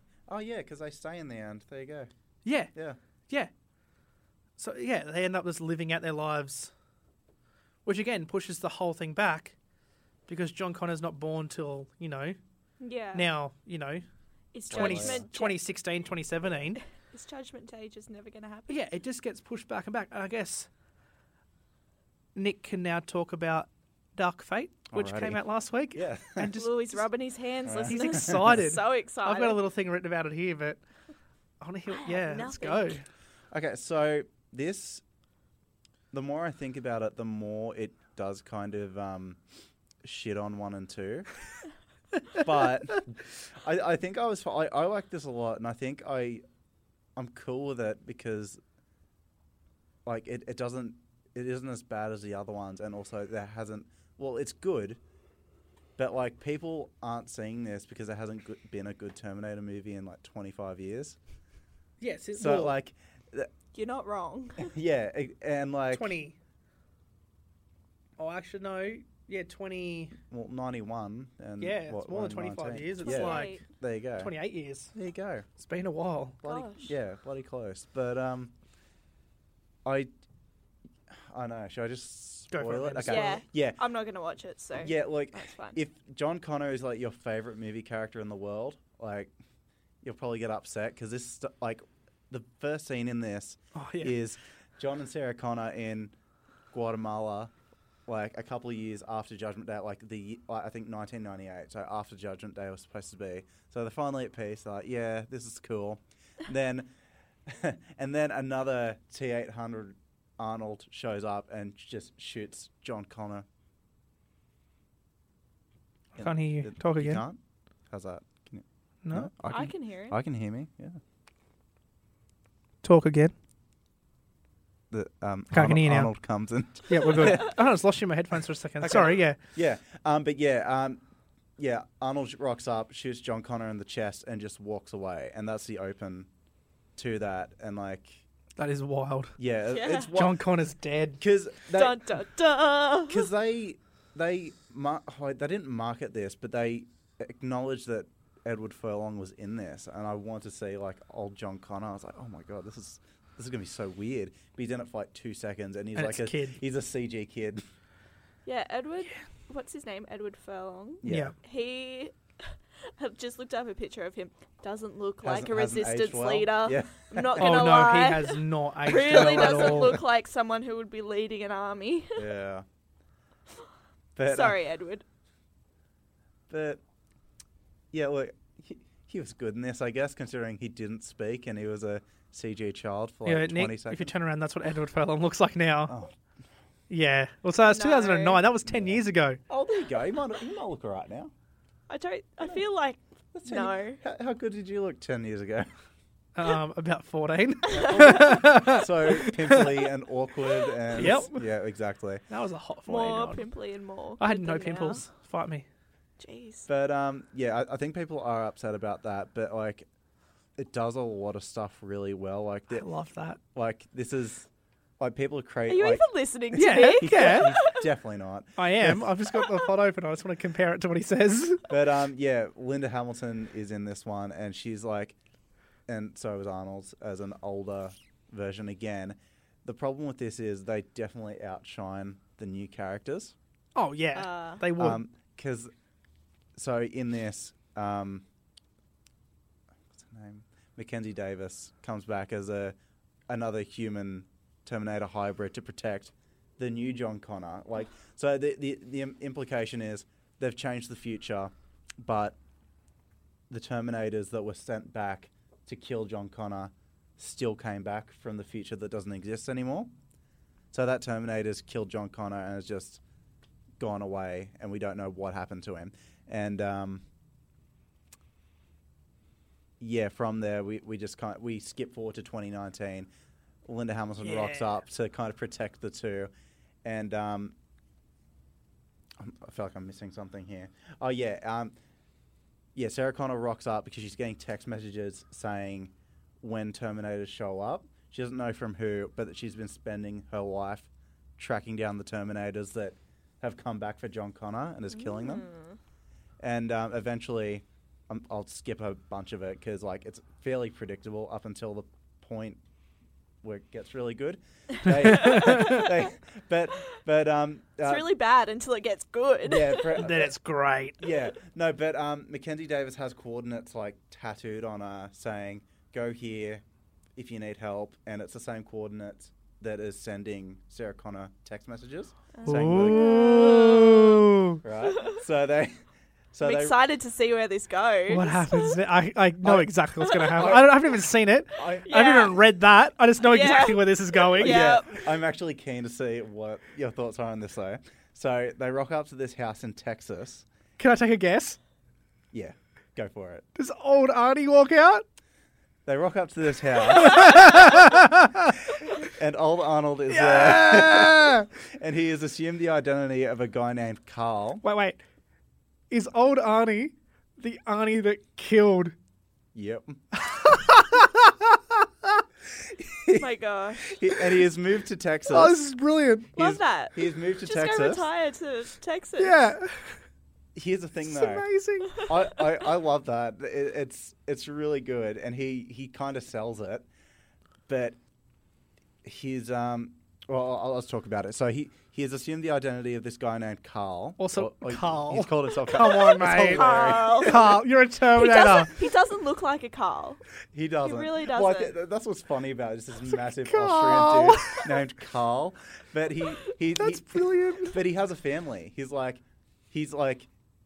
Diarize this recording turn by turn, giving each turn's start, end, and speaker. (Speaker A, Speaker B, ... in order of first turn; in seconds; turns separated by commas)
Speaker A: 0.3-2.1, Speaker B: 2.5-2.7, Speaker B: 4.6-6.7, Speaker B: 7.8-9.6, Speaker B: 10.3-12.4, Speaker C: 12.8-13.3, Speaker B: 13.1-14.0, Speaker C: 14.5-15.6, Speaker A: 14.7-15.2, Speaker B: 14.7-16.8, Speaker C: 16.9-18.8, Speaker B: 18.7-20.7, Speaker B: 22.3-27.1, Speaker A: 24.9-25.4, Speaker A: 25.9-26.5, Speaker C: 26.5-29.6, Speaker A: 27.6-28.6, Speaker B: 27.8-30.8, Speaker B: 31.6-33.0, Speaker C: 31.9-33.0, Speaker A: 33.5-35.0, Speaker A: 36.1-39.4, Speaker A: 40.0-41.3, Speaker A: 42.3-46.4, Speaker A: 47.2-48.6, Speaker A: 50.0-55.0, Speaker A: 56.0-61.2, Speaker B: 62.0-62.8, Speaker A: 62.4-63.5, Speaker C: 63.7-64.7, Speaker A: 64.6-66.1, Speaker B: 65.9-66.4, Speaker B: 68.2-70.2, Speaker A: 70.3-74.3, Speaker B: 71.6-73.6, Speaker C: 73.0-73.6, Speaker B: 74.2-74.9, Speaker A: 74.9-75.5, Speaker B: 75.6-76.4, Speaker A: 76.4-78.5, Speaker C: 76.5-76.9, Speaker A: 79.8-80.1, Speaker A: 81.1-83.8, Speaker B: 82.5-83.4, Speaker C: 83.0-85.8, Speaker A: 84.8-89.3, Speaker A: 90.0-96.1, Speaker B: 93.7-94.2, Speaker A: 96.7-97.5, Speaker A: 98.1-106.9, Speaker A: 107.5-113.5, Speaker A: 116.1-117.4, Speaker B: 116.2-117.2, Speaker A: 117.9-121.0, Speaker B: 119.0-119.3, Speaker C: 119.5-120.2, Speaker B: 122.8-123.3, Speaker A: 124.9-127.5, Speaker B: 125.5-126.1, Speaker B: 126.9-129.4, Speaker A: 128.8-131.0, Speaker A: 131.6-136.3, Speaker A: 136.9-138.2, Speaker B: 138.6-139.3, Speaker A: 139.4-140.4, Speaker C: 139.7-140.1, Speaker B: 140.1-141.2, Speaker A: 141.2-142.0, Speaker C: 141.7-143.3, Speaker A: 143.1-157.6, Speaker B: 155.9-156.6, Speaker C: 158.4-172.3, Speaker A: 161.0-161.3, Speaker B: 161.1-161.3, Speaker A: 165.2-167.7, Speaker B: 167.4-170.0, Speaker A: 168.9-170.0, Speaker A: 172.2-172.6, Speaker A: 174.2-174.6, Speaker C: 174.3-175.0, Speaker A: 176.5-176.8, Speaker A: 177.9-184.1, Speaker B: 183.3-185.9, Speaker A: 185.9-186.1, Speaker B: 186.9-189.4, Speaker C: 187.7-188.4, Speaker A: 188.6-191.3, Speaker C: 191.9-194.0, Speaker A: 193.3-195.7, Speaker B: 196.4-199.7, Speaker C: 197.7-198.3, Speaker A: 197.7-202.2, Speaker B: 200.9-201.5, Speaker B: 202.3-203.4, Speaker C: 202.9-205.0, Speaker B: 204.2-205.7, Speaker C: 206.2-206.7, Speaker A: 206.7-209.9, Speaker A: 210.6-212.9, Speaker B: 212.7-213.4, Speaker A: 213.5-214.5, Speaker A: 215.0-219.1, Speaker C: 215.7-217.9, Speaker B: 216.5-217.6, Speaker B: 218.6-221.7, Speaker A: 221.7-225.2, Speaker A: 225.9-233.3, Speaker B: 233.8-235.0, Speaker C: 234.1-234.6, Speaker A: 234.8-235.7, Speaker A: 236.6-238.2, Speaker A: 239.9-242.7, Speaker A: 243.3-252.4, Speaker A: 253.5-259.9, Speaker A: 260.7-263.0, Speaker A: 263.8-267.1, Speaker A: 269.8-273.1, Speaker A: 273.6-276.3, Speaker B: 274.2-274.8, Speaker A: 276.8-277.6, Speaker A: 279.2-281.8, Speaker A: 282.7-295.5, Speaker C: 294.9-295.8, Speaker A: 296.4-302.6, Speaker A: 303.4-308.1, Speaker B: 305.1-305.8, Speaker C: 305.2-306.1, Speaker C: 307.8-310.0, Speaker A: 309.4-310.3, Speaker B: 309.9-311.0, Speaker A: 311.0-316.6, Speaker A: 317.2-323.6, Speaker C: 322.3-324.2, Speaker B: 322.4-324.6, Speaker A: 324.6-325.8, Speaker C: 324.8-325.2, Speaker A: 326.3-326.8, Speaker C: 326.4-328.8, Speaker B: 328.1-334.8, Speaker A: 329.4-329.7, Speaker C: 330.1-330.5, Speaker A: 330.2-330.9, Speaker A: 331.5-331.9, Speaker C: 331.8-332.4, Speaker C: 333.2-335.1, Speaker A: 334.4-340.4, Speaker B: 340.8-341.6, Speaker A: 342.3-343.4, Speaker B: 343.6-345.0, Speaker A: 345.9-347.9, Speaker B: 346.9-348.6, Speaker A: 348.7-354.6, Speaker B: 350.1-351.4, Speaker B: 354.6-355.0, Speaker B: 355.9-358.9, Speaker A: 359.5-360.0, Speaker B: 360.1-362.2, Speaker A: 362.6-363.3, Speaker C: 363.1-364.0, Speaker A: 363.8-365.6, Speaker B: 365.3-366.3, Speaker A: 366.3-368.1, Speaker C: 366.4-369.4, Speaker B: 369.2-370.0, Speaker A: 370.6-376.9, Speaker B: 371.0-372.1, Speaker A: 377.7-378.0, Speaker A: 379.0-387.6, Speaker B: 384.2-388.7, Speaker C: 386.4-387.6, Speaker C: 388.1-390.2, Speaker A: 390.5-400.3, Speaker C: 390.8-391.7, Speaker B: 393.1-394.7, Speaker B: 396.7-397.8